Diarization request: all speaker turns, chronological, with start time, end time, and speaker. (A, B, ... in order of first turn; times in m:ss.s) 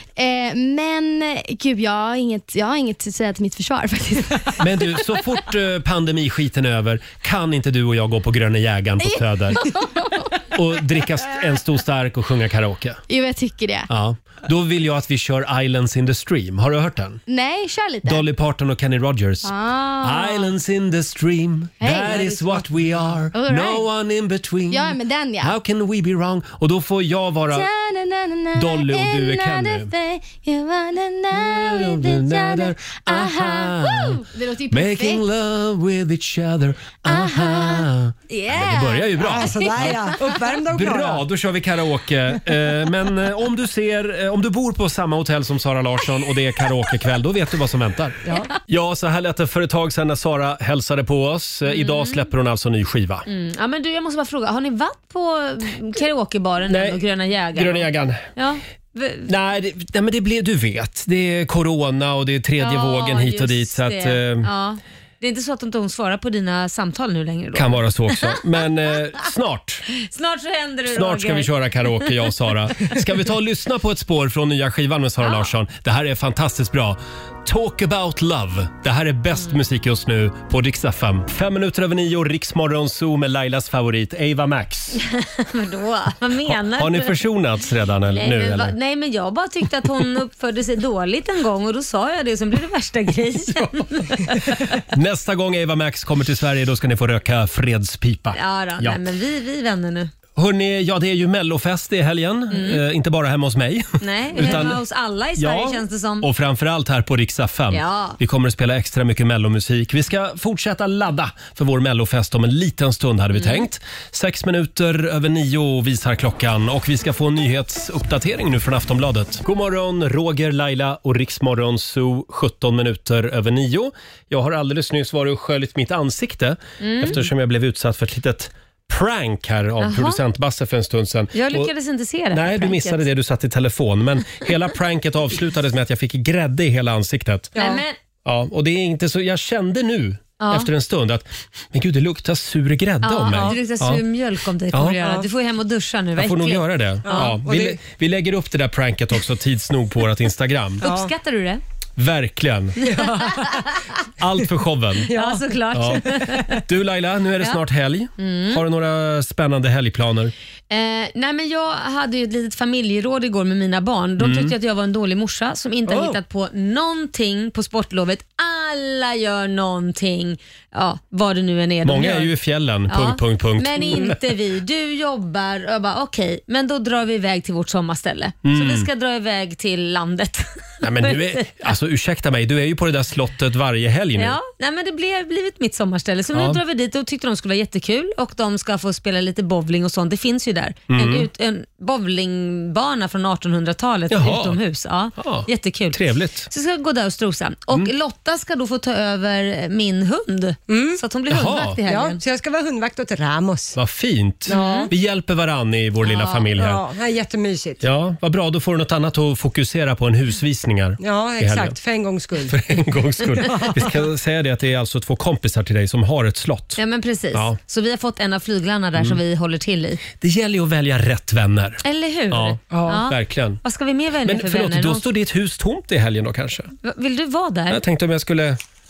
0:00.2-0:05.1 A
0:04.6-0:09.6 B
0:09.0-0:10.4 A
0:10.5-0:13.0 B
0:13.1-0:13.9 A
0:13.9-0:17.2 B
0:17.3-0:18.2 A
0:18.0-0:27.7 B
0:19.4-0:20.5 A
0:21.8-0:22.7 A
0:23.3-0:23.9 A
0:24.7-0:25.6 A
0:27.5-0:35.2 A
0:28.5-0:29.9 B
0:31.3-0:53.2 B
0:37.0-0:40.1 A
0:39.2-0:41.2 C
0:51.7-0:52.2 D
0:53.3-0:59.3 D
0:56.7-0:57.0 B
0:57.5-0:58.3 B
0:59.2-1:04.5 B
1:02.6-1:08.4 D
1:07.5-1:09.9 B
1:10.0-1:12.0 D
1:10.9-1:25.0 B
1:15.2-1:15.5 D
1:25.0-1:27.2 D
1:26.4-1:28.7 B
1:28.1-1:34.8 D
1:34.6-1:39.0 B
1:38.3-1:40.1 D
1:40.4-1:44.8 B
1:42.5-1:42.8 D
1:44.0-1:46.3 D
1:45.4-2:11.7 B
1:47.7-1:48.2 D
1:53.3-1:53.7 D
2:06.8-2:07.2 D
2:09.8-2:10.2 D
2:11.3-2:13.0 D
2:12.3-2:17.5 B
2:17.6-2:17.8 C
2:17.6-2:18.0 D
2:18.2-2:24.0 B
2:20.4-2:20.7 D
2:23.0-2:27.3 D
2:23.3-2:23.6 C
2:24.7-2:25.0 B
2:26.2-2:30.8 B
2:27.0-2:27.8 C
2:30.8-2:31.6 D
2:30.8-2:31.1 C
2:32.0-2:32.9 B
2:32.8-2:33.8 C
2:34.2-2:35.1 B
2:35.1-2:36.4 C
2:35.1-2:36.6 D
2:35.7-2:40.3 B
2:38.2-2:38.6 D
2:40.7-2:52.3 D
2:44.2-2:44.5 B
2:45.9-2:46.2 C
2:51.8-2:54.2 B
2:52.9-3:01.4 D
2:58.4-2:58.8 B
3:00.8-3:04.4 B
3:04.2-3:22.2 D
3:06.3-3:06.6 B
3:10.9-3:11.3 B
3:14.1-3:14.6 B
3:15.2-3:16.5 B
3:20.7-3:21.0 C
3:21.3-3:21.8 B
3:21.8-3:23.8 C
3:23.7-3:26.8 B
3:24.5-3:24.9 C
3:24.5-3:24.9 D
3:26.0-3:26.4 D
3:26.5-3:27.8 C
3:27.8-3:31.8 B
3:31.0-3:32.7 C
3:32.4-3:36.8 B
3:33.4-3:34.0 C
3:36.8-3:40.0 D
3:40.2-3:43.6 B
3:41.8-3:45.0 D
3:42.7-3:43.0 C
3:44.2-3:46.7 B
3:46.8-3:47.8 D
3:47.7-3:48.6 B